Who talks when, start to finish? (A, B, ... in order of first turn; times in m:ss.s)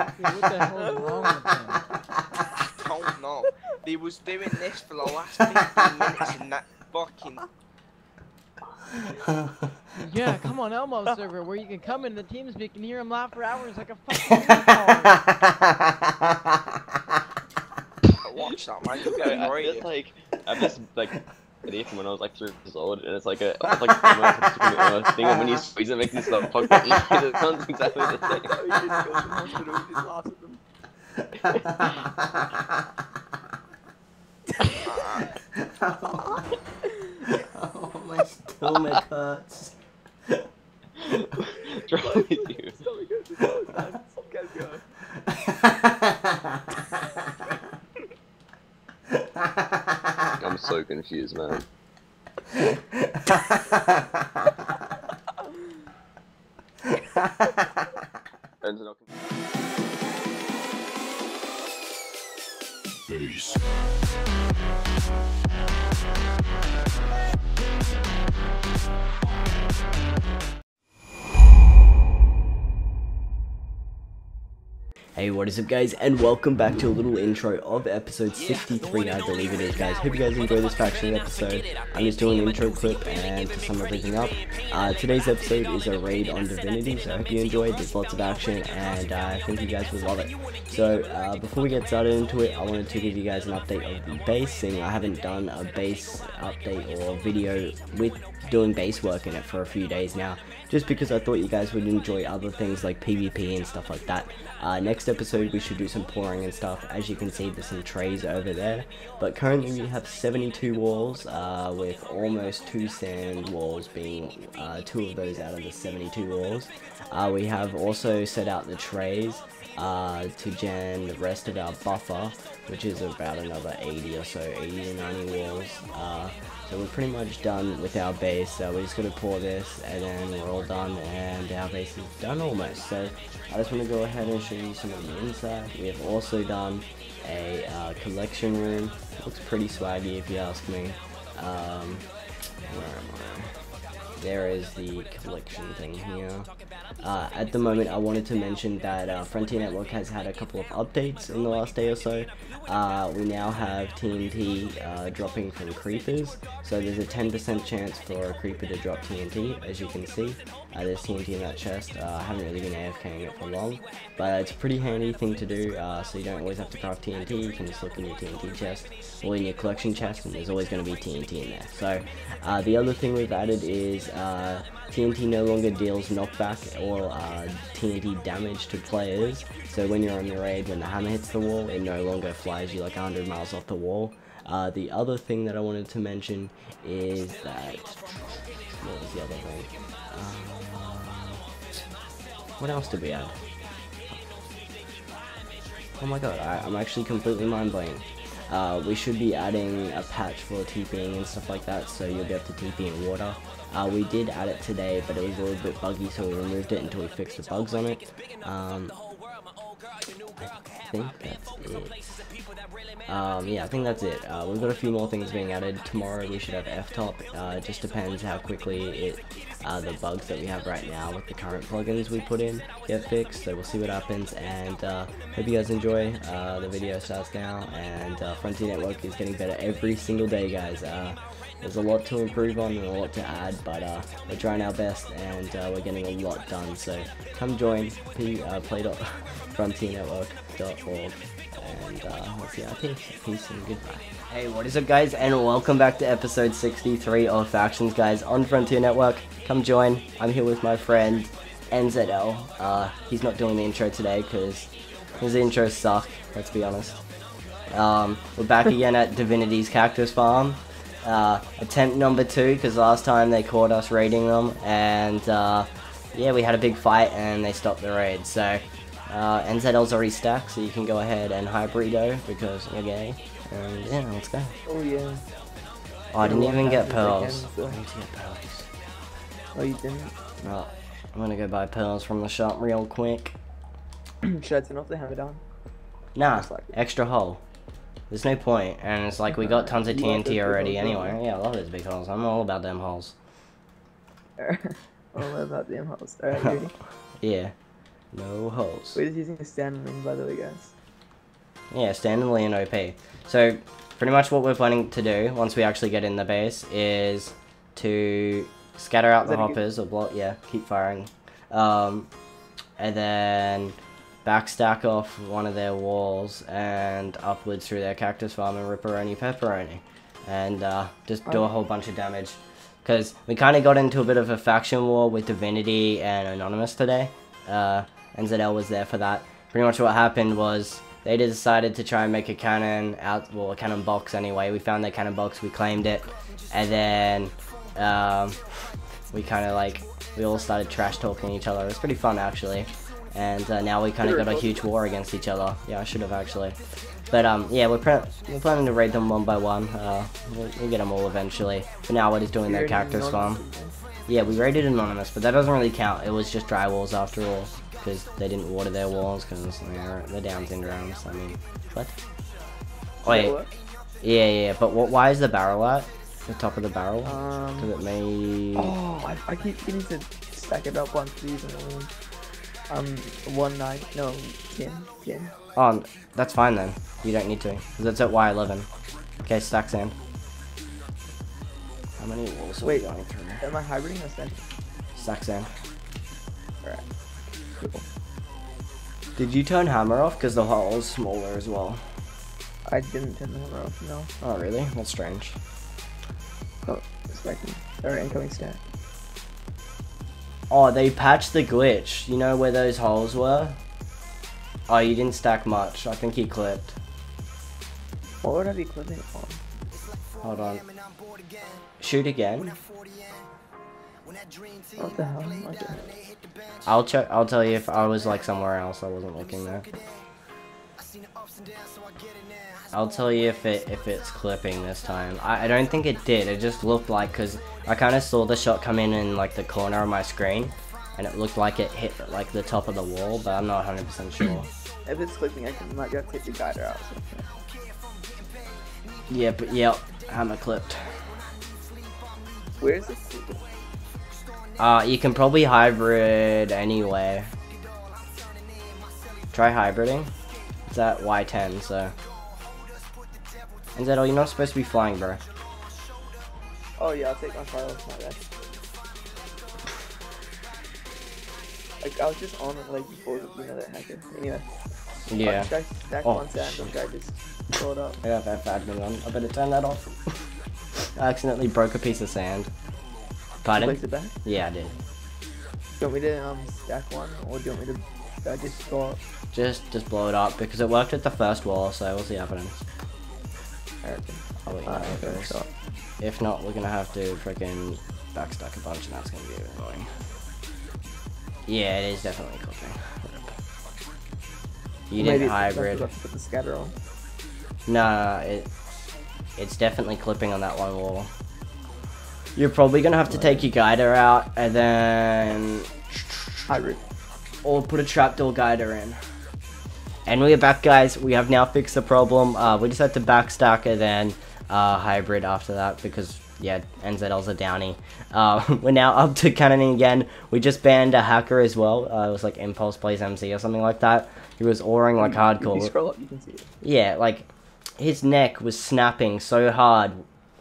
0:00.2-0:01.8 A
0:00.8-0:01.1 B
0:02.7-0:07.4 C
0:09.9-0:15.3 A
0:14.3-0:16.6 D
0:18.2-0:19.9 C
0:19.0-0:28.6 E
0:23.8-0:25.6 D
0:26.7-0:27.1 D
0:28.4-0:30.6 B
0:31.4-0:32.7 D
0:35.6-0:36.5 D
0:36.8-0:37.3 B
0:37.2-0:39.7 D
0:41.4-0:44.8 B
0:41.4-0:42.8 E
0:45.3-0:46.7 D
0:49.2-0:50.2 D
0:50.4-0:51.6 E
0:52.5-0:54.5 D
0:58.6-0:59.1 E
1:15.2-2:22.1 D
2:22.6-2:23.6 D
2:24.2-2:26.5 D
2:27.0-3:08.0 D
3:08.7-3:11.4 D
3:12.6-3:13.4 D
3:16.0-3:28.9 D
3:30.4-3:32.3 D
3:33.1-4:17.0 D
4:17.7-4:34.5 D
4:34.7-4:35.2 B
4:36.1-4:38.7 D
4:36.2-4:37.8 B
4:39.6-4:40.2 B
4:40.4-4:43.4 D
4:44.2-4:45.4 B
4:46.2-4:47.4 D
4:46.3-4:46.7 B
4:48.1-4:53.2 D
4:49.4-4:51.2 B
4:54.4-4:56.7 B
4:57.2-4:57.5 D
4:58.1-4:59.0 D
4:59.0-5:00.7 B
5:01.7-5:12.1 D
5:09.2-5:09.6 B
5:12.8-5:38.5 D
5:39.1-5:46.6 D
5:44.0-5:44.6 B
5:47.1-5:53.4 D
5:52.5-5:53.8 B
5:54.1-6:02.0 D
6:03.0-6:03.4 D
6:03.1-6:03.5 B
6:04.0-6:08.7 D
6:07.0-6:07.7 B
6:08.6-6:11.9 B
6:12.7-6:15.3 B
6:15.6-6:18.7 D
6:19.2-6:20.0 D
6:22.0-6:23.4 D
6:22.6-6:22.9 B
6:23.4-6:24.5 B
6:25.0-6:25.5 D
6:27.5-6:27.8 B
6:29.2-6:31.8 D
6:32.7-6:34.1 B
6:34.2-6:35.4 D
6:36.6-6:38.6 B
6:40.5-6:43.6 D
6:44.7-6:46.8 D
6:48.2-6:49.4 B
6:50.2-6:50.8 D
6:51.8-6:52.6 D
6:54.8-6:55.8 B
6:56.6-6:59.8 D
7:02.7-7:14.5 D
7:14.8-7:17.3 B
7:19.1-7:20.9 D
7:22.6-7:23.4 B
7:24.6-7:27.3 D
7:29.3-7:30.1 D
7:30.7-7:31.9 D
7:33.8-7:35.2 D
7:36.8-7:38.2 B
7:41.8-7:44.5 B
7:45.1-7:45.5 D
7:45.2-7:48.0 B
7:46.0-7:46.7 D
7:48.0-7:50.2 D
7:50.8-7:52.5 D
7:53.4-7:54.8 D
7:53.5-7:54.1 B
7:55.8-7:59.0 B
7:59.3-8:02.6 D
8:03.8-8:05.5 B
8:04.5-8:05.4 D
8:06.0-8:09.9 D
8:11.5-8:13.4 D
8:14.9-8:15.9 D
8:15.0-8:16.7 B
8:17.7-8:18.5 D
8:19.4-8:21.1 D
8:22.4-8:26.4 D
8:23.1-8:23.5 B
8:26.5-8:26.8 B
8:27.4-8:29.0 D
8:30.1-8:45.7 D
8:45.0-8:46.5 B
8:46.6-8:50.0 D